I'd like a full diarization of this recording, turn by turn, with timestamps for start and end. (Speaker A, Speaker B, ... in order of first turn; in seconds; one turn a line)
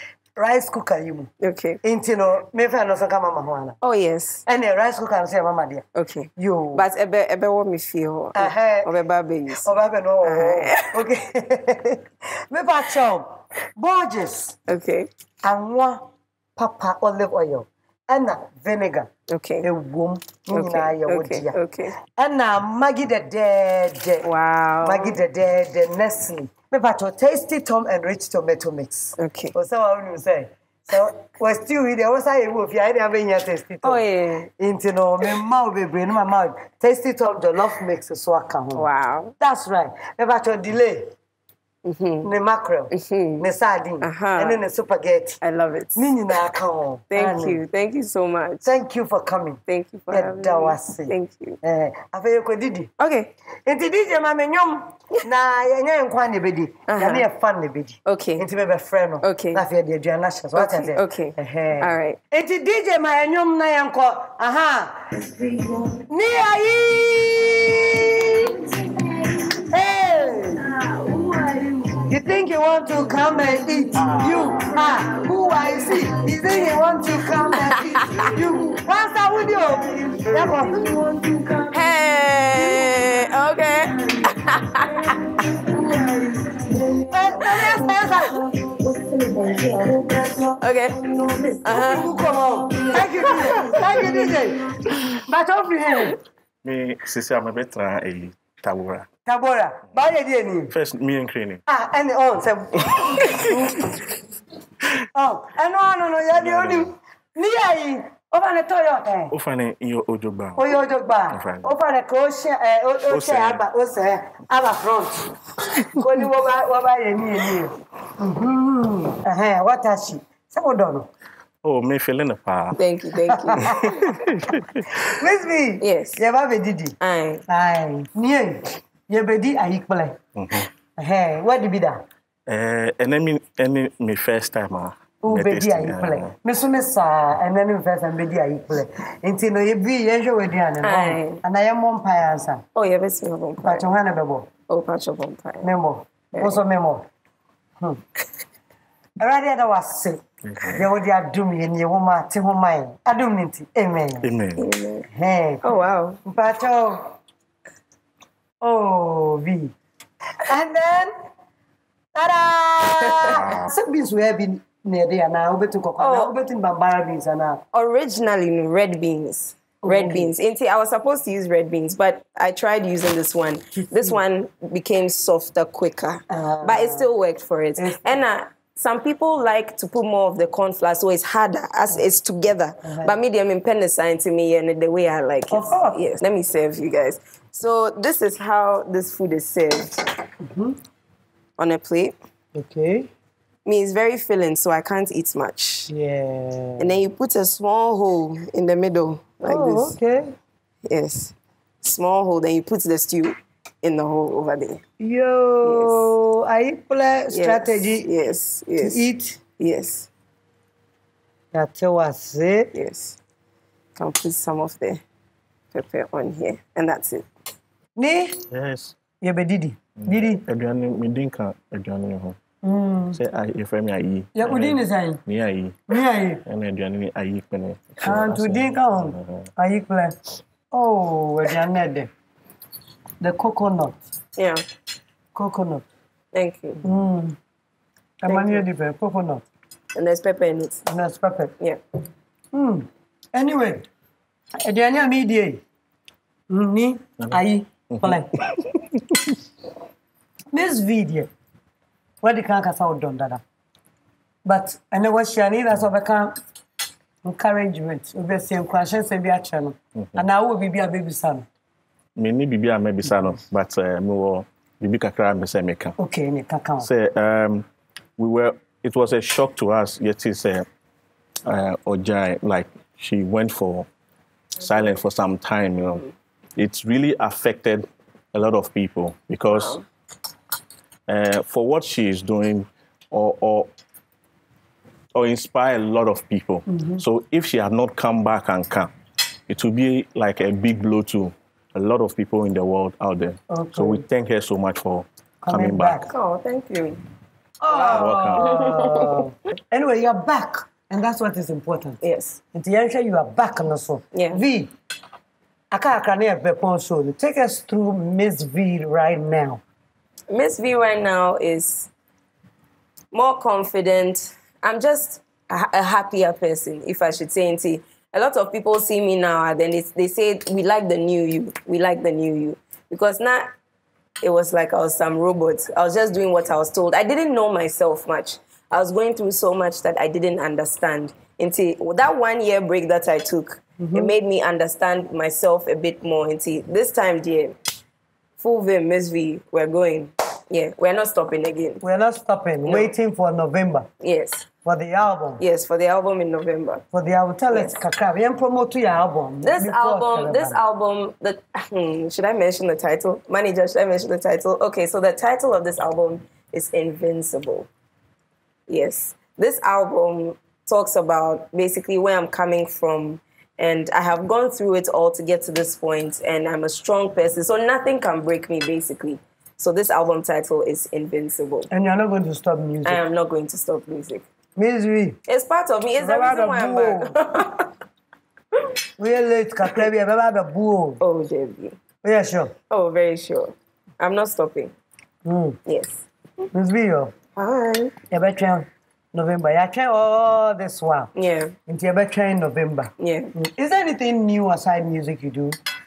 Speaker A: 0.4-1.3
Speaker B: 1.4-1.8
Speaker A: 1.8-3.8
Speaker B: 3.8-4.4
Speaker A: 4.5-5.8
Speaker B: 6.0-9.7
Speaker A: 6.4-6.8
Speaker A: 8.3-8.9
Speaker A: 9.6-14.6
Speaker B: 10.2-10.9
Speaker B: 14.7-15.1
Speaker A: 15.4-16.0
Speaker A: 16.6-19.1
Speaker B: 19.3-19.7
Speaker A: 19.6-21.6
Speaker B: 20.5-21.9
Speaker A: 22.1-24.3
Speaker B: 24.2-25.2
Speaker A: 24.8-34.0
Speaker B: 29.2-29.5
Speaker B: 33.8-34.5
Speaker A: 34.6-38.9
Speaker B: 38.8-39.4
Speaker A: 39.4-41.1
Speaker B: 41.8-42.3
Speaker A: 42.2-45.4
Speaker B: 42.9-43.5
Speaker B: 44.0-44.6
Speaker B: 45.4-46.1
Speaker A: 46.0-47.6
Speaker B: 47.1-48.6
Speaker A: 48.6-52.9
Speaker B: 49.7-51.6
Speaker B: 53.0-53.3
Speaker A: 53.6-65.2
Speaker B: 56.9-57.3
Speaker B: 58.0-58.5
Speaker B: 59.2-59.6
Speaker B: 60.5-62.2
Speaker A: 65.9-68.6
Speaker A: 69.6-70.7
Speaker A: 71.9-81.6
Speaker B: 77.6-78.3
Speaker B: 81.7-85.2
Speaker A: 87.0-88.5
Speaker B: 87.0-87.9
Speaker B: 90.5-92.2
Speaker A: 91.1-96.2
Speaker B: 93.0-94.1
Speaker C: 96.6-99.1
Speaker A: 99.3-100.7
Speaker C: 100.7-101.6
Speaker A: 101.7-103.9
Speaker A: 105.2-109.3
Speaker C: 106.3-106.9
Speaker C: 109.3-110.7
Speaker A: 110.6-115.3
Speaker C: 111.3-111.7
Speaker C: 113.1-113.6
Speaker A: 115.9-121.1
Speaker C: 121.6-122.8
Speaker B: 122.8-124.1
Speaker A: 123.3-124.0
Speaker C: 124.3-124.6
Speaker A: 125.1-127.0
Speaker B: 125.8-126.2
Speaker B: 127.0-127.4
Speaker A: 127.5-130.2
Speaker C: 130.4-130.7
Speaker A: 131.0-132.0
Speaker C: 132.5-136.3
Speaker A: 135.2-142.6
Speaker B: 140.8-141.4
Speaker B: 142.8-143.9
Speaker A: 143.6-144.5
Speaker B: 144.7-145.7
Speaker A: 145.6-147.1
Speaker A: 149.2-154.3
Speaker C: 150.5-150.7
Speaker C: 154.2-154.6
Speaker B: 154.6-155.1
Speaker A: 155.1-155.6
Speaker B: 155.6-156.2
Speaker A: 156.2-157.2
Speaker A: 158.6-159.7
Speaker A: 160.4-161.1
Speaker A: 162.1-167.6
Speaker B: 163.0-163.5
Speaker B: 166.0-166.3
Speaker B: 167.7-190.0
Speaker A: 169.8-170.3
Speaker A: 176.3-177.1
Speaker A: 182.8-183.2
Speaker A: 185.5-186.0
Speaker A: 190.4-190.8
Speaker B: 191.6-192.2
Speaker A: 192.6-193.1
Speaker B: 193.7-195.9
Speaker A: 195.9-197.0
Speaker B: 196.8-200.0
Speaker A: 199.4-200.4
Speaker B: 200.9-204.8
Speaker A: 205.0-208.1
Speaker B: 205.6-206.1
Speaker B: 207.3-209.1
Speaker A: 208.8-209.4
Speaker B: 209.6-210.1
Speaker A: 211.5-212.7
Speaker B: 212.7-213.2
Speaker B: 214.0-215.0
Speaker B: 215.7-217.3
Speaker A: 218.0-218.4
Speaker C: 218.5-218.9
Speaker A: 219.2-220.4
Speaker C: 220.0-222.4
Speaker A: 222.6-223.2
Speaker C: 223.2-225.8
Speaker A: 224.3-225.2
Speaker A: 225.9-226.4
Speaker C: 226.4-229.5
Speaker A: 228.0-230.2
Speaker A: 230.7-232.1
Speaker A: 233.2-234.0
Speaker B: 234.4-234.6
Speaker A: 235.3-235.8
Speaker B: 236.3-236.8
Speaker A: 236.8-237.4
Speaker A: 238.2-239.4
Speaker B: 238.3-238.7
Speaker B: 239.9-240.8
Speaker A: 240.9-241.5
Speaker A: 242.5-243.9
Speaker A: 244.6-245.6
Speaker A: 246.5-248.8
Speaker C: 247.9-248.2
Speaker A: 250.5-251.3
Speaker A: 252.2-253.4
Speaker A: 254.4-256.4
Speaker A: 257.2-261.5
Speaker C: 260.0-260.2
Speaker C: 262.2-265.9
Speaker A: 266.0-266.9
Speaker C: 266.8-267.7
Speaker C: 268.2-270.7
Speaker C: 271.5-273.9
Speaker C: 274.6-279.8
Speaker B: 279.5-279.9
Speaker C: 281.1-283.7
Speaker C: 285.1-288.9
Speaker A: 286.7-287.0
Speaker C: 289.5-296.0
Speaker A: 293.5-294.1
Speaker A: 295.4-296.1
Speaker B: 296.1-297.0
Speaker A: 297.6-302.0
Speaker B: 297.7-299.3
Speaker C: 297.9-298.7
Speaker B: 302.0-302.4
Speaker A: 302.5-304.7
Speaker B: 304.1-304.4
Speaker A: 305.7-309.6
Speaker B: 310.3-311.9
Speaker B: 313.1-323.5
Speaker B: 324.2-337.6
Speaker A: 333.8-334.1
Speaker B: 338.4-341.8
Speaker A: 341.8-343.9
Speaker B: 342.6-342.9
Speaker B: 344.0-344.5
Speaker A: 344.6-345.4
Speaker B: 345.4-346.8
Speaker A: 346.9-350.6
Speaker B: 347.5-347.8
Speaker B: 349.4-357.7
Speaker B: 358.7-371.7
Speaker A: 371.7-373.0
Speaker B: 372.9-374.2
Speaker A: 374.6-375.2
Speaker B: 375.3-377.7
Speaker A: 376.0-377.1
Speaker A: 379.0-381.0
Speaker B: 381.0-381.8
Speaker A: 382.0-382.5
Speaker B: 382.7-384.7
Speaker A: 385.2-385.6
Speaker B: 385.7-386.1
Speaker A: 386.5-387.1
Speaker B: 387.4-387.9
Speaker A: 388.1-391.1
Speaker B: 391.1-391.6
Speaker A: 391.7-395.6
Speaker B: 393.0-393.3